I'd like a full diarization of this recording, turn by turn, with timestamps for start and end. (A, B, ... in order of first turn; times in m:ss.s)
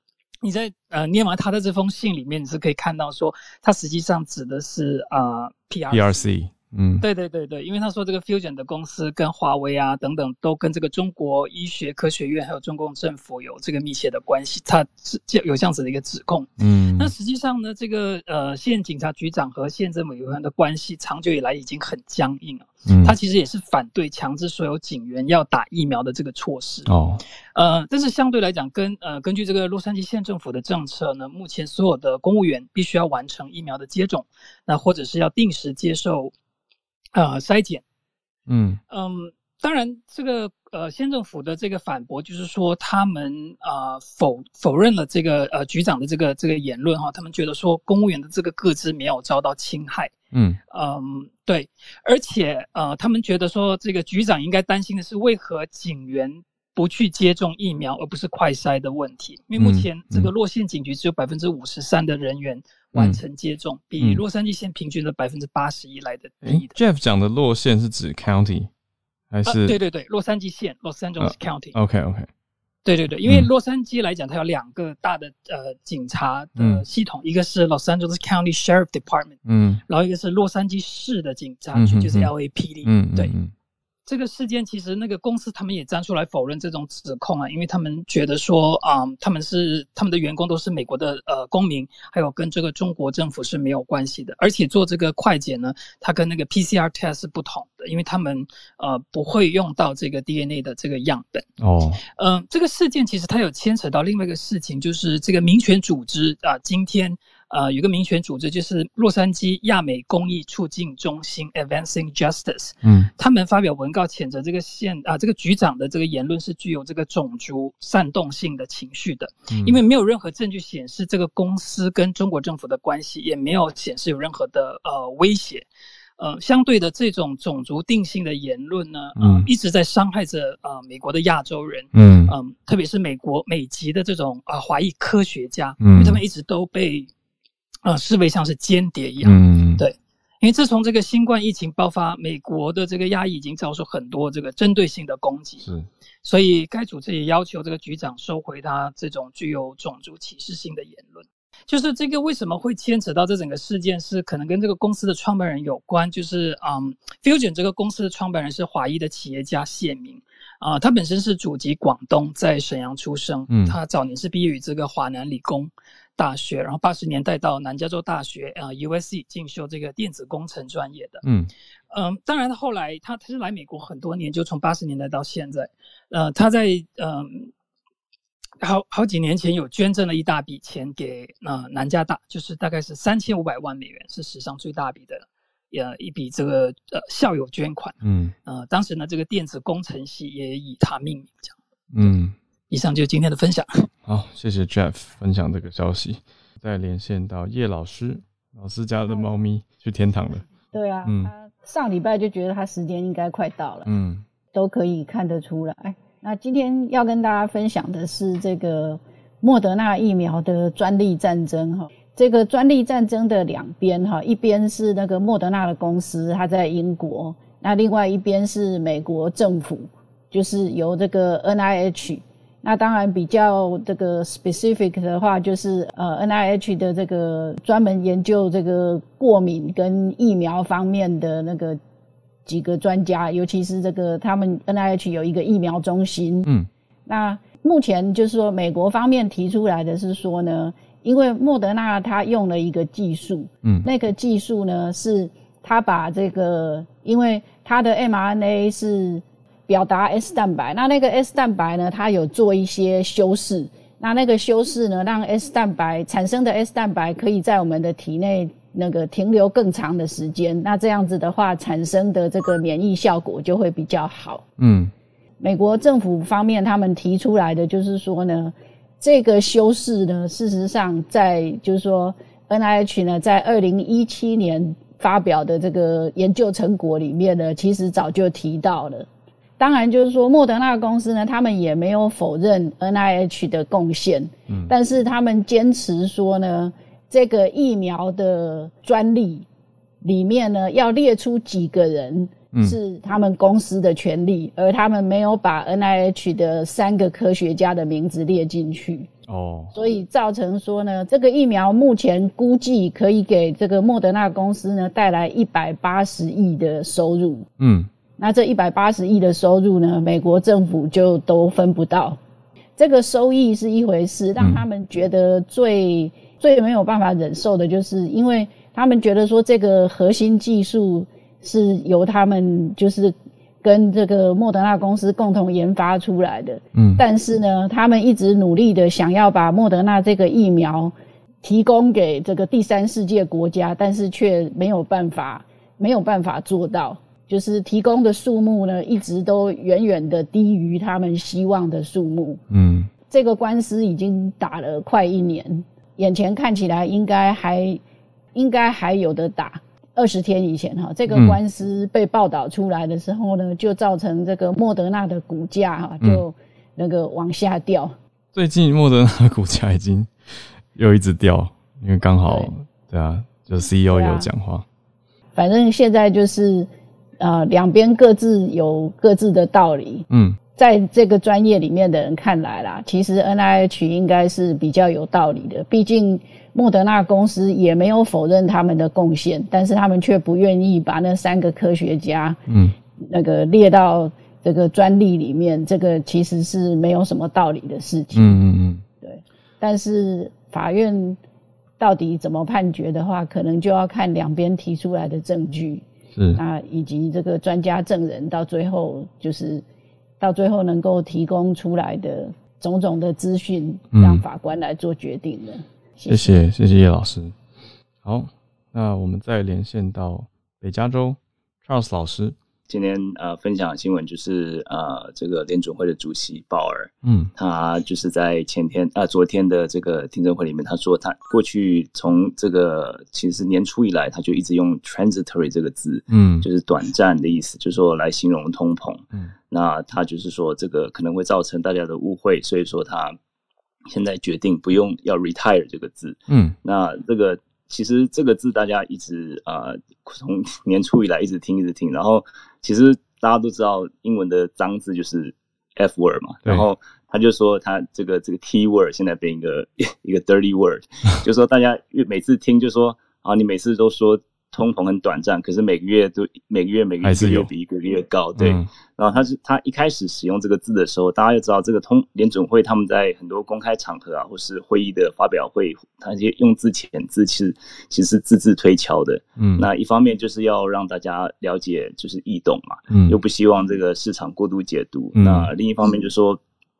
0:00.4-0:06.2 A
0:05.9-0:07.0 B
0:07.0-0:26.9 A
0:16.6-0:17.1 B
0:22.8-0:23.1 B
0:26.8-0:27.2 B
0:27.5-0:36.3 A
0:37.1-0:37.8 A
0:38.5-0:38.8 B
0:38.9-0:50.1 A
0:50.3-0:50.6 B
0:50.7-1:06.8 A
0:59.6-1:00.3 B
1:02.9-1:03.2 B
1:06.4-1:08.7 B
1:09.3-1:09.8 B
1:09.4-1:11.8 A
1:11.2-1:12.3 B
1:12.8-1:23.3 A
1:16.6-1:16.8 B
1:19.4-1:19.8 B
1:21.7-1:22.3 B
1:22.8-1:23.5 B
1:24.0-1:41.4 A
1:41.6-1:42.0 B
1:42.0-2:05.7 A
1:52.8-1:53.1 B
1:59.5-1:59.8 B
2:06.2-2:17.1 A
2:09.2-2:09.5 B
2:11.9-2:12.3 B
2:15.8-2:16.2 B
2:17.8-2:25.7 A
2:19.2-2:19.8 B
2:25.6-2:25.9 B
2:26.2-2:51.2 A
2:43.5-2:43.8 B
2:51.2-2:51.5 B
2:51.9-2:57.5 A
2:58.6-3:12.1 A
3:08.0-3:08.3 B
3:11.9-3:12.4 B
3:12.7-3:13.8 A
3:14.0-3:20.4 B
3:20.7-3:23.9 C
3:21.0-3:21.3 B
3:23.8-3:24.2 B
3:24.5-3:51.8 C
3:52.4-3:56.5 C
3:57.1-4:24.5 C
4:24.6-4:24.9 B
4:25.4-4:39.1 C
4:39.6-4:49.4 C
4:50.0-4:59.1 C
4:59.3-4:59.7 B
4:59.7-5:07.5 C
5:07.6-5:07.9 B
5:08.2-5:12.2 C
5:12.8-5:42.4 C
5:14.4-5:14.6 B
5:26.7-5:27.0 B
5:42.5-5:42.9 B
5:43.1-5:47.8 C
5:48.3-5:57.9 C
5:51.1-5:51.4 B
5:58.3-6:00.1 B
6:00.7-6:04.6 B
6:02.2-6:02.5 C
6:03.9-6:04.3 C
6:05.4-6:06.7 C
6:07.2-6:22.4 C
6:10.1-6:10.4 B
6:22.5-6:22.7 B
6:23.1-6:28.4 C
6:28.1-6:28.8 B
6:29.0-6:31.2 C
6:31.8-6:35.8 C
6:36.1-6:36.4 B
6:36.4-6:39.6 C
6:40.2-6:46.4 C
6:43.9-6:44.2 B
6:46.1-6:47.3 B
6:48.0-6:52.4 B
6:52.7-7:13.2 D
6:57.0-6:57.3 B
7:06.1-7:06.5 B
7:13.9-7:56.4 D
7:16.3-7:16.6 B
7:37.0-7:37.5 B
7:38.4-7:38.7 B
7:49.4-7:49.7 B
7:52.9-7:53.2 B
7:55.1-7:55.5 B